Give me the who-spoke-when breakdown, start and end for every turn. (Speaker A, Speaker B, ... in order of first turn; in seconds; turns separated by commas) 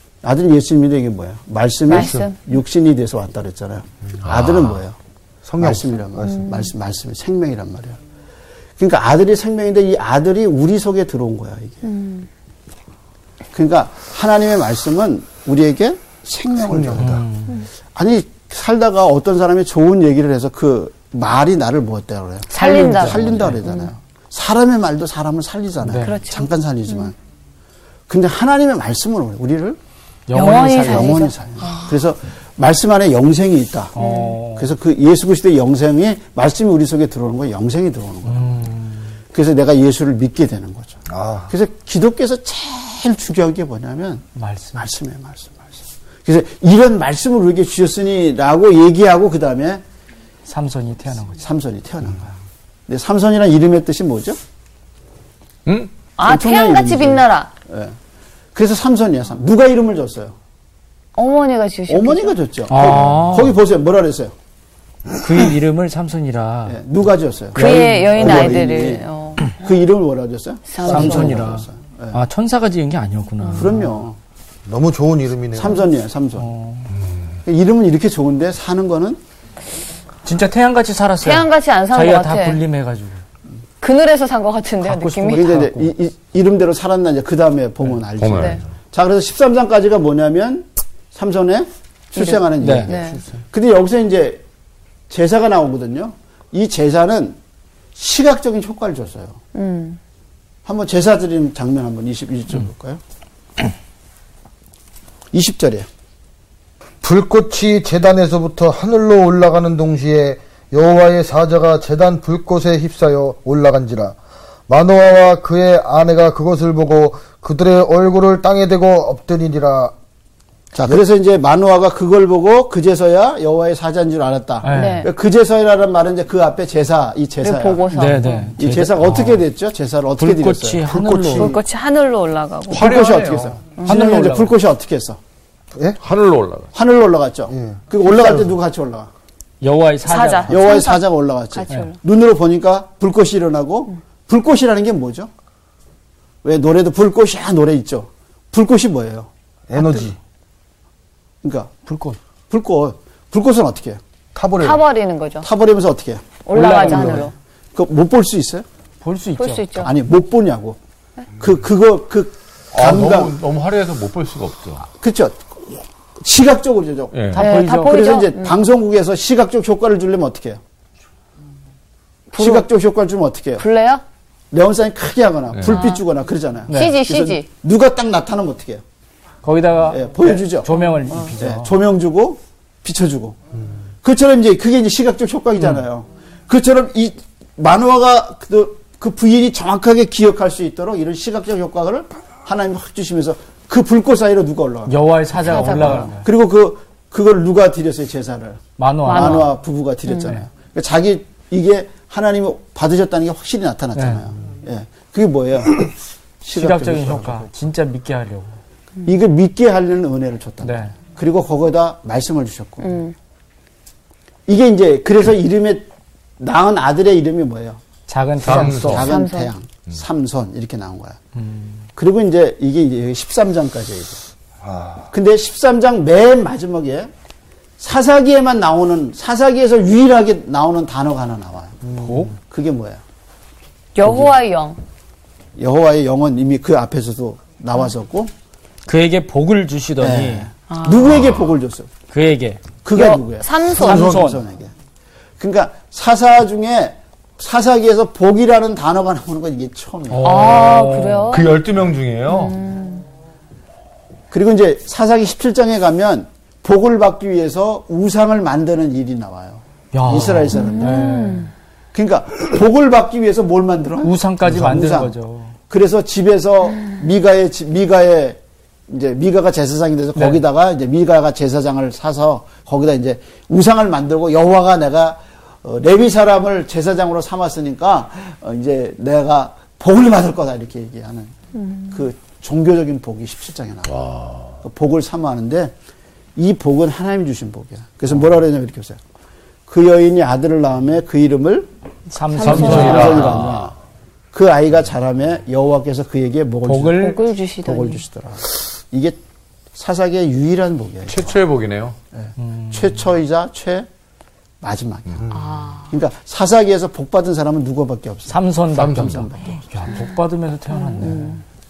Speaker A: 0.2-5.0, Speaker B: 1.9-2.4, Speaker C: 1.9-2.2, Speaker D: 4.2-4.8, Speaker C: 5.5-6.5, Speaker A: 5.6-8.0, Speaker B: 6.4-6.7, Speaker A: 8.8-11.8, Speaker B: 11.8-12.3, Speaker A: 13.5-17.2, Speaker C: 16.7-17.2, Speaker E: 17.0-17.6, Speaker A: 17.9-27.1, Speaker B: 22.5-23.9, Speaker E: 22.6-23.5, Speaker E: 25.8-26.1, Speaker B: 26.0-27.1, Speaker A: 28.1-29.8, Speaker E: 30.3-31.3, Speaker B: 30.3-31.8, Speaker A: 30.8-34.0, Speaker E: 33.9-34.7, Speaker B: 34.0-34.4, Speaker A: 34.5-38.6, Speaker E: 38.2-39.1, Speaker A: 39.3-49.8, Speaker C: 41.1-41.5, Speaker E: 44.4-44.9, Speaker E: 50.5-51.4, Speaker A: 51.4-52.4, Speaker A: 52.9-54.4, Speaker B: 56.2-57.5, Speaker A: 56.2-58.0, Speaker A: 58.5-60.4, Speaker B: 61.1-62.9, Speaker A: 61.9-64.3, Speaker E: 62.7-63.6, Speaker E: 65.2-66.8, Speaker A: 66.7-72.2, Speaker E: 67.5-68.5, Speaker B: 67.5-69.6, Speaker B: 70.7-71.4, Speaker E: 70.9-73.8, Speaker A: 73.5-74.2, Speaker C: 74.7-75.8, Speaker A: 75.5-76.5, Speaker E: 76.4-76.9, Speaker A: 77.4-79.2, Speaker E: 80.2-83.2, Speaker B: 81.2-82.6, Speaker B: 83.8-85.5, Speaker E: 84.8-85.9, Speaker A: 85.3-94.4, Speaker D: 88.2-88.6, Speaker B: 92.2-93.2, Speaker E: 92.6-92.9, Speaker A: 95.1-97.4, Speaker A: 98.0-99.4, Speaker B: 99.5-100.0, Speaker A: 100.6-103.0, Speaker A: 105.3-105.9, Speaker C: 107.0-114.2, Speaker C: 114.7-119.9, Speaker C: 120.7-121.0, Speaker A: 120.8-127.9, Speaker E: 124.6-125.1, Speaker B: 124.7-125.1, Speaker B: 127.4-128.5, Speaker E: 127.9-129.4, Speaker A: 128.6-131.6, Speaker E: 130.2-131.5, Speaker B: 131.3-133.0, Speaker A: 132.7-135.2, Speaker D: 132.7-133.5, Speaker E: 133.8-134.5, Speaker D: 136.0-136.7, Speaker A: 136.7-139.1, Speaker C: 137.5-138.4, Speaker E: 139.6-140.6, Speaker B: 140.1-141.9, Speaker A: 140.5-145.3, Speaker A: 146.4-149.3, Speaker C: 149.7-150.2, Speaker A: 151.4-151.7, Speaker E: 151.8-152.2, Speaker A: 152.5-154.0, Speaker C: 154.3-154.8, Speaker B: 154.6-155.5, Speaker A: 155.4-158.7, Speaker B: 156.4-157.3, Speaker E: 156.5-157.3, Speaker E: 159.0-159.9, Speaker B: 159.4-159.9, Speaker A: 159.8-160.8, Speaker A: 161.4-163.3, Speaker D: 162.7-164.9, Speaker A: 165.0-170.6, Speaker D: 167.1-167.4, Speaker E: 167.3-168.1, Speaker B: 167.3-168.5, Speaker B: 172.3-172.6, Speaker A: 172.3-173.7, Speaker B: 173.6-174.0, Speaker A: 174.5-178.8, Speaker D: 175.5-175.8, Speaker B: 175.7-176.0, Speaker E: 176.7-176.9, Speaker B: 176.7-177.4, Speaker E: 179.4-181.7, Speaker A: 179.9-183.4, Speaker A: 184.0-207.5, Speaker E: 194.9-196.2, Speaker B: 195.5-196.1, Speaker E: 198.8-199.5, Speaker B: 199.0-199.5, Speaker B: 200.1-200.3, Speaker E: 203.9-204.2, Speaker E: 206.5-208.5, Speaker A: 209.1-213.0, Speaker E: 210.6-210.9, Speaker B: 212.8-213.1, Speaker A: 214.5-215.9, Speaker A: 216.4-217.8, Speaker E: 218.1-219.0, Speaker D: 218.4-219.1, Speaker A: 218.4-221.2, Speaker B: 219.0-219.5, Speaker E: 221.4-221.7, Speaker A: 221.9-224.2, Speaker C: 224.6-225.1, Speaker A: 225.1-227.1, Speaker A: 227.8-231.8, Speaker C: 231.8-232.3, Speaker E: 232.0-232.3, Speaker A: 232.4-233.0, Speaker B: 233.9-234.8, Speaker A: 234.0-234.3, Speaker A: 235.6-238.3, Speaker E: 238.8-240.5, Speaker A: 240.0-241.9, Speaker B: 240.7-241.2, Speaker E: 242.1-242.6, Speaker A: 242.8-244.7, Speaker B: 242.9-244.2, Speaker E: 243.8-244.4, Speaker A: 245.4-250.5, Speaker E: 250.1-251.3, Speaker B: 250.2-251.5, Speaker D: 251.3-252.6, Speaker B: 252.3-253.0, Speaker A: 254.3-261.1, Speaker E: 259.9-261.5, Speaker B: 260.5-261.5, Speaker A: 261.9-265.1, Speaker E: 264.0-265.5, Speaker A: 265.7-281.3, Speaker B: 281.6-282.0, Speaker A: 281.9-283.9, Speaker D: 283.9-284.5, Speaker A: 284.6-285.7, Speaker A: 286.4-289.0, Speaker A: 289.7-291.7, Speaker E: 292.1-293.4, Speaker B: 292.3-293.1, Speaker D: 292.4-293.7, Speaker A: 292.4-293.7, Speaker A: 294.3-299.2, Speaker E: 296.6-297.2, Speaker B: 296.9-298.0, Speaker A: 299.7-301.4, Speaker D: 301.1-301.9, Speaker A: 302.1-303.9, Speaker E: 302.4-302.9, Speaker A: 304.6-305.2, Speaker B: 305.3-305.9, Speaker A: 305.9-309.7, Speaker E: 308.3-311.4, Speaker D: 308.8-309.1, Speaker B: 310.7-311.4